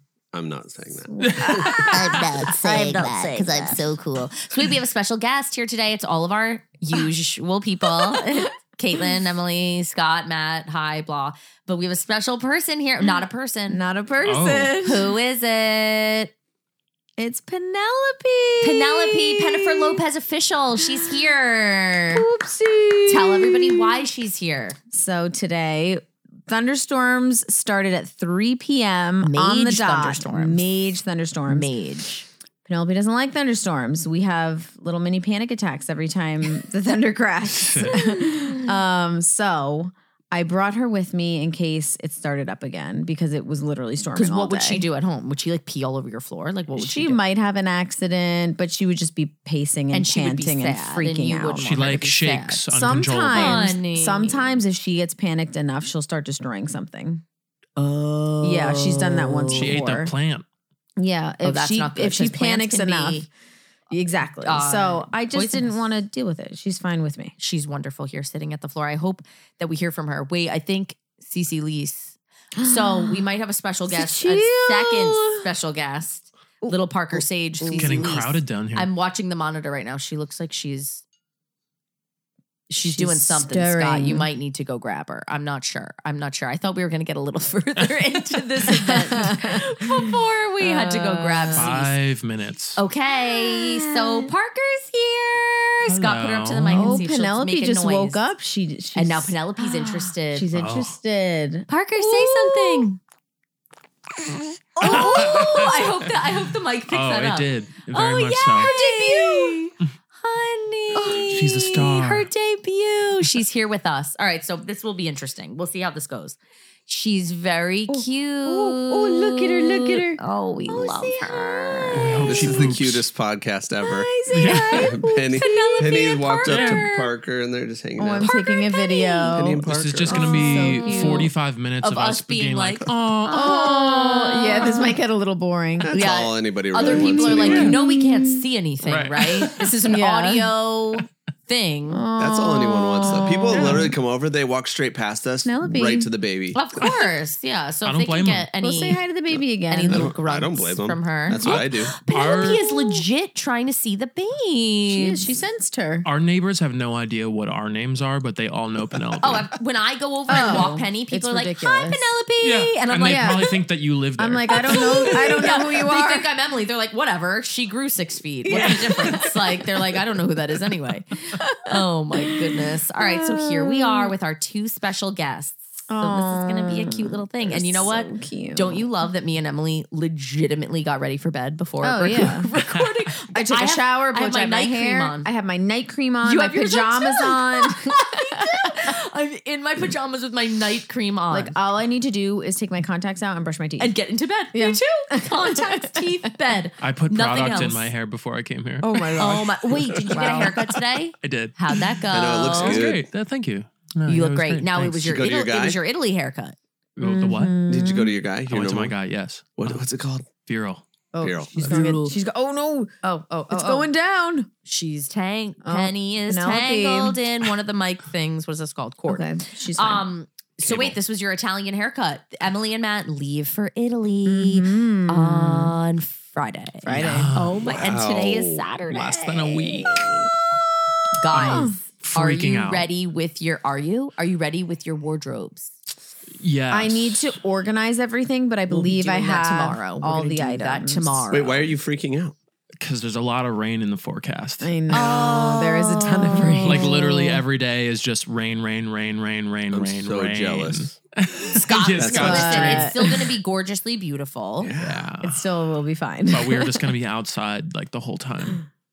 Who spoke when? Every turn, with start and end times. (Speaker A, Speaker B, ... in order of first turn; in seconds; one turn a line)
Speaker A: 0.3-1.7
Speaker B: 1.1-3.9
Speaker C: 1.2-2.2
Speaker D: 1.9-13.8
Speaker B: 7.8-8.4
Speaker B: 13.7-15.1
Speaker C: 14.2-14.7
Speaker D: 14.8-16.3
Speaker B: 17.2-20.0
Speaker D: 18.6-22.2
Speaker B: 20.8-21.1
Speaker B: 22.1-24.0
Speaker D: 23.1-24.8
Speaker B: 24.9-31.7
Speaker D: 29.2-30.7
Speaker D: 31.5-32.3
Speaker B: 32.6-44.8
Speaker C: 37.5-38.0
Speaker D: 37.9-38.6
Speaker D: 44.1-47.2
Speaker B: 46.7-51.7
Speaker D: 49.9-52.6
Speaker C: 51.6-53.8
Speaker B: 52.7-57.2
Speaker D: 53.3-54.6
Speaker D: 57.8-59.8
Speaker B: 58.4-60.1
Speaker C: 59.5-60.4
Speaker B: 61.0-63.3
Speaker D: 61.4-63.3
Speaker B: 63.9-67.3
Speaker D: 64.4-65.8
Speaker D: 67.4-81.0
Speaker B: 72.5-73.2
Speaker B: 73.9-75.4
Speaker B: 76.6-78.2
Speaker C: 77.7-78.9
Speaker D: 82.7-91.9
Speaker B: 82.8-84.3
Speaker B: 88.7-91.7
Speaker C: 91.5-92.8
Speaker D: 92.8-98.2
Speaker B: 93.2-94.3
Speaker C: 95.8-97.0
Speaker B: 96.7-102.9
Speaker D: 98.9-100.5
Speaker C: 100.5-101.0
Speaker D: 101.7-103.0
Speaker B: 104.7-105.6
Speaker D: 104.8-122.3
Speaker C: 104.8-106.1
Speaker C: 106.9-108.7
Speaker B: 108.5-109.6
Speaker B: 110.9-111.4
Speaker C: 111.3-112.3
Speaker B: 117.9-122.6
Speaker C: 121.9-123.0
Speaker A: 122.3-128.3
Speaker B: 123.8-126.3
Speaker C: 124.3-125.0
Speaker D: 125.4-127.1
Speaker C: 126.5-126.8
Speaker B: 128.0-131.3
Speaker D: 128.2-129.2
Speaker A: 129.2-130.5
Speaker C: 129.7-133.4
Speaker D: 130.4-131.3
Speaker D: 131.8-135.0
Speaker B: 133.3-136.1
Speaker A: 135.8-137.7
Speaker D: 135.9-142.0
Speaker B: 136.7-138.4
Speaker C: 137.4-137.7
Speaker C: 138.8-139.6
Speaker B: 139.3-140.5
Speaker B: 141.9-143.9
Speaker A: 142.2-146.6
Speaker C: 143.3-143.9
Speaker B: 145.4-146.1
Speaker D: 146.5-149.0
Speaker C: 147.8-148.5
Speaker B: 148.6-150.1
Speaker D: 149.7-155.2
Speaker A: 149.9-151.9
Speaker C: 151.4-152.6
Speaker B: 152.3-153.0
Speaker B: 154.9-156.1
Speaker C: 156.0-159.5
Speaker D: 159.2-163.5
Speaker B: 160.3-162.1
Speaker C: 162.4-165.2
Speaker B: 163.0-163.5
Speaker B: 164.2-166.3
Speaker D: 164.5-185.3
Speaker B: 168.4-169.7
Speaker B: 171.4-174.1
Speaker B: 175.9-178.8
Speaker B: 181.8-182.5
Speaker B: 183.3-188.9
Speaker D: 186.2-191.5
Speaker B: 191.3-193.9
Speaker D: 193.8-197.9
Speaker B: 194.5-196.3
Speaker C: 196.8-199.5
Speaker B: 198.8-200.6
Speaker D: 199.1-202.8
Speaker C: 200.1-200.6
Speaker C: 201.2-201.7
Speaker A: 202.1-203.1
Speaker C: 202.4-205.2
Speaker D: 204.1-206.6
Speaker A: 205.0-205.8
Speaker C: 207.0-207.6
Speaker B: 207.0-208.1
Speaker A: 207.7-208.9
Speaker C: 208.5-209.8
Speaker A: 209.6-210.2
Speaker C: 210.4-210.8
Speaker B: 211.1-212.9
Speaker A: 211.2-212.0
Speaker D: 211.5-212.2
Speaker D: 213.0-213.9
Speaker B: 213.5-214.5
Speaker D: 214.7-230.3
Speaker B: 215.6-217.2
Speaker B: 219.1-220.1
Speaker A: 220.6-220.9
Speaker B: 224.2-225.7
Speaker B: 226.8-227.3
Speaker C: 226.9-227.6
Speaker A: 227.6-228.7
Speaker C: 228.9-230.0
Speaker D: 231.2-235.8
Speaker C: 231.3-232.9
Speaker B: 231.4-231.8
Speaker C: 236.4-237.4
Speaker B: 236.7-241.3
Speaker D: 238.7-241.7
Speaker A: 241.3-242.3
Speaker C: 242.8-244.7
Speaker B: 244.6-247.4
Speaker D: 244.9-246.9
Speaker C: 246.6-253.3
Speaker A: 249.7-250.9
Speaker D: 251.5-254.7
Speaker A: 252.0-252.7
Speaker B: 252.2-252.9
Speaker A: 254.6-255.1
Speaker C: 254.8-255.4
Speaker B: 255.2-256.9
Speaker C: 256.3-258.6